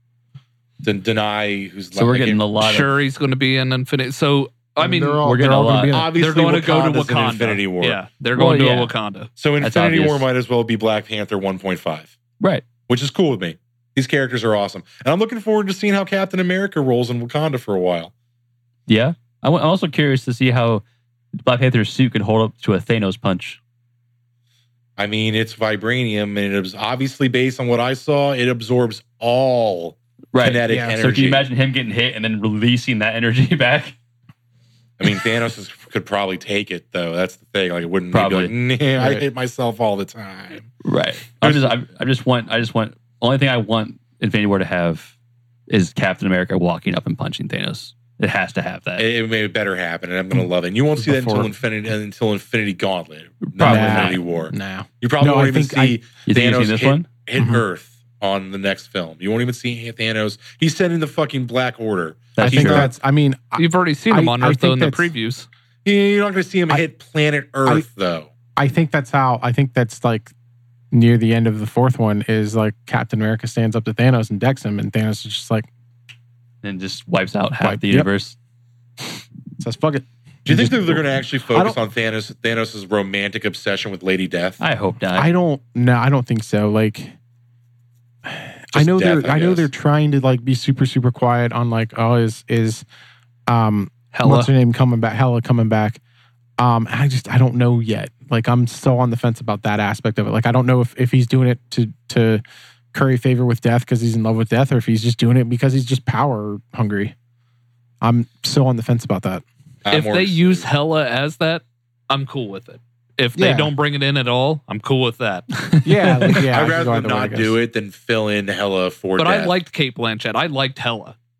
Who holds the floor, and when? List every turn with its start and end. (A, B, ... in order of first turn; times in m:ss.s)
0:00.8-0:02.4 A
0:01.9-0:02.9 B
0:02.6-0:05.3 C
0:04.8-0:06.1 D
0:05.2-0:06.0 B
0:05.9-0:08.0 A
0:06.2-0:09.3 C
0:08.4-0:08.9 B
0:09.4-0:12.1 A
0:09.6-0:10.2 B
0:12.4-0:12.7 B
0:12.9-0:18.1 A
0:18.9-0:20.8 B
0:21.4-0:23.6 B
0:25.0-0:31.4 A
0:30.3-0:34.0 B
0:30.7-0:31.0 D
0:35.0-0:40.7 A
0:38.1-0:38.5 B
0:39.0-0:39.2 D
0:40.8-0:45.1 B
0:41.4-0:41.8 A
0:45.7-0:49.1 B
0:49.0-1:02.9 A
0:51.0-0:51.5 D
0:53.5-0:54.2 B
0:53.6-0:56.0 D
0:56.3-0:57.1 B
0:57.4-0:57.6 D
1:02.4-1:02.9 B
1:02.4-1:05.1 D
1:03.6-1:05.5 C
1:05.8-1:08.3 A
1:08.6-1:10.3 D
1:10.9-1:15.7 D
1:16.6-1:18.4 B
1:17.6-1:18.1 D
1:19.6-1:21.8 D
1:20.5-1:24.6 A
1:24.6-1:25.3 B
1:25.2-1:27.1 D
1:28.2-1:32.8 D
1:28.7-1:29.7 A
1:33.5-1:36.0 D
1:34.1-1:34.5 C
1:36.6-1:47.1 D
1:48.0-1:49.4 D
1:49.8-1:50.7 A
1:49.9-1:56.4 C
1:53.4-1:53.7 D
1:55.8-1:57.5 D
1:56.5-1:59.6 A
1:59.2-2:01.2 C